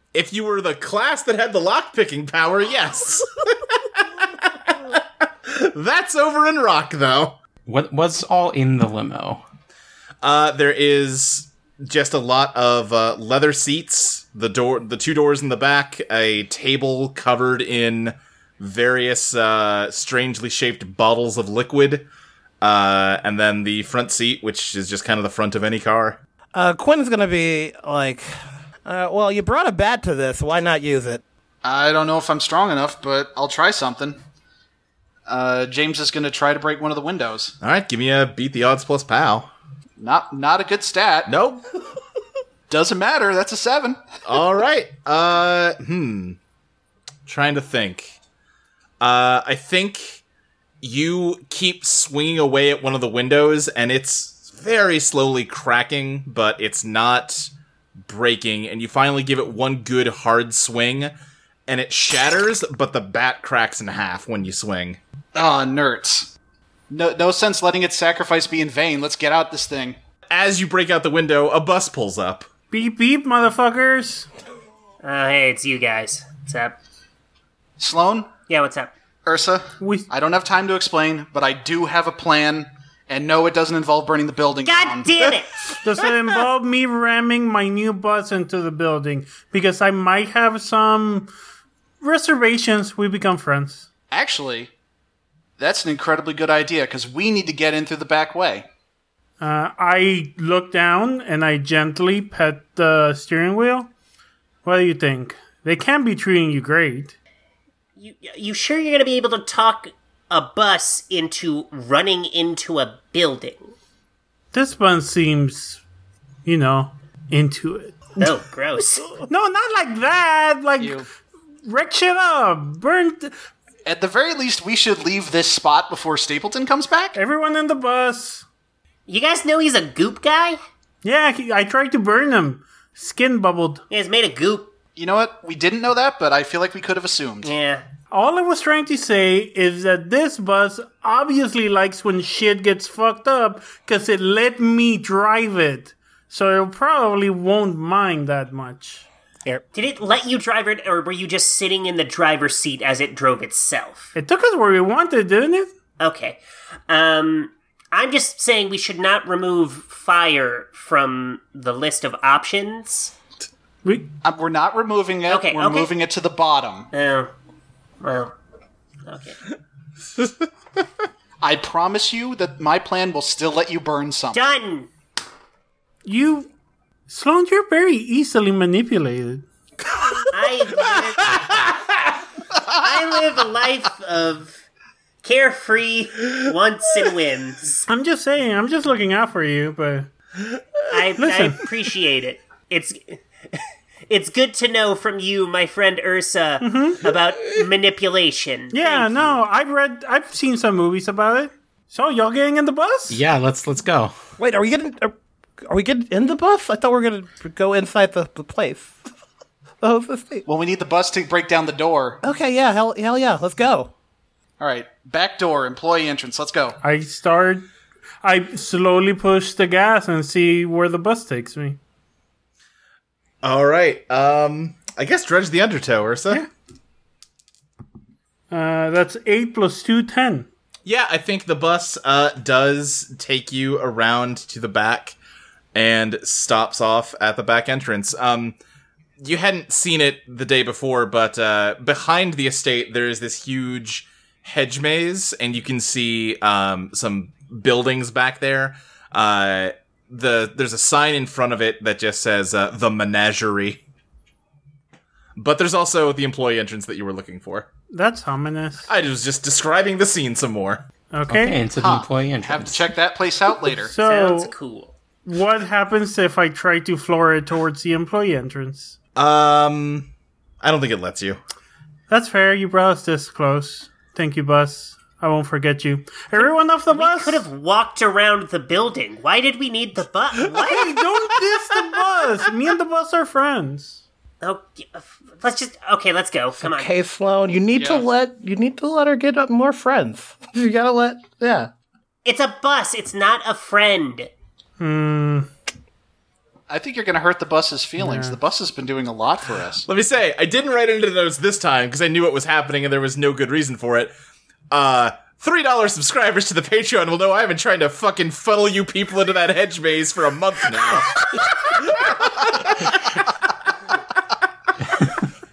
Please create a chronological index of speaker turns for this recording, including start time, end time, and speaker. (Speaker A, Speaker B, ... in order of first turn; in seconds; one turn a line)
Speaker A: 0.1-7.4
Speaker B: 7.7-9.4
Speaker A: 10.2-22.1
Speaker A: 22.6-26.2
Speaker C: 26.5-31.2
Speaker D: 31.6-34.2
Speaker D: 35.3-37.5
Speaker A: 37.6-39.5
Speaker D: 40.0-41.3
Speaker A: 41.3-41.6
Speaker D: 42.7-44.0
Speaker A: 44.2-46.4
Speaker A: 47.3-48.1
Speaker A: 49.0-50.2
Speaker A: 50.8-57.5
Speaker A: 58.0-61.1
Speaker A: 61.7-65.0
Speaker D: 65.3-66.3
Speaker D: 66.9-70.0
Speaker A: 70.3-72.5
Speaker E: 72.7-74.3
Speaker F: 75.0-76.8
Speaker D: 77.8-78.3
Speaker F: 78.5-78.9
Speaker D: 79.2-85.1
Speaker E: 79.8-80.1
Speaker F: 84.6-85.6
Speaker E: 85.8-91.3
Speaker E: 92.0-93.9
Speaker D: 94.1-94.7
Speaker D: 95.6-98.7
Speaker E: 99.4-103.9
Speaker E: 104.6-107.1
Speaker F: 108.0-113.7
Speaker E: 114.5-115.8
Speaker E: 116.4-118.1
Speaker F: 118.2-119.1
Speaker E: 119.2-121.0
Speaker D: 120.8-121.0
Speaker E: 121.6-123.3
Speaker D: 123.8-127.2
Speaker E: 127.2-128.4
Speaker F: 129.1-130.6
Speaker E: 131.0-133.8
Speaker F: 133.9-134.7
Speaker D: 134.9-137.5
Speaker F: 137.4-137.8
Speaker E: 138.1-149.0
Speaker F: 149.7-154.1
Speaker E: 154.1-155.7
Speaker F: 156.0-163.1
Speaker E: 163.8-164.1
Speaker D: 164.2-166.9
Speaker F: 165.3-165.9
Speaker F: 166.9-167.3
Speaker F: 168.0-168.3
Speaker F: 169.0-169.4
Speaker D: 171.4-174.5
Speaker F: 174.3-174.9
Speaker E: 176.0-176.5
Speaker E: 177.1-179.4
Speaker F: 180.3-181.6
Speaker A: 181.2-182.1
Speaker F: 182.7-184.6
Speaker F: 185.2-187.8
Speaker E: 187.9-190.1
Speaker F: 190.9-199.4
Speaker E: 191.2-191.6
Speaker E: 196.6-197.0
Speaker E: 198.7-203.2
Speaker B: 203.1-204.1
Speaker C: 204.4-205.1
Speaker C: 205.6-209.0
Speaker C: 209.8-210.4
Speaker D: 210.4-212.2
Speaker C: 212.2-213.9
Speaker D: 214.6-216.8
Speaker E: 216.8-217.7
Speaker E: 218.2-221.8
Speaker A: 223.4-226.4
Speaker E: 228.5-230.5
Speaker A: 230.8-235.2
Speaker A: 235.7-238.6
Speaker A: 239.2-253.8
Speaker A: 255.3-257.7
Speaker E: 257.9-258.9
Speaker A: 258.9-260.8
Speaker E: 261.1-261.6
Speaker B: 261.3-262.9
Speaker D: 261.7-263.9
Speaker E: 263.7-264.5
Speaker F: 264.0-264.9
Speaker E: 265.2-268.9
Speaker A: 269.1-270.1
Speaker A: 270.6-271.4
Speaker E: 272.1-277.4
Speaker F: 276.4-280.9
Speaker E: 280.6-284.0
Speaker F: 284.4-286.9
Speaker C: 286.6-291.7
Speaker D: 287.8-288.1
Speaker F: 292.2-294.3
Speaker E: 294.8-295.5
Speaker D: 296.7-299.9
Speaker E: 298.0-298.4
Speaker A: 299.9-304.1
Speaker A: 304.7-313.2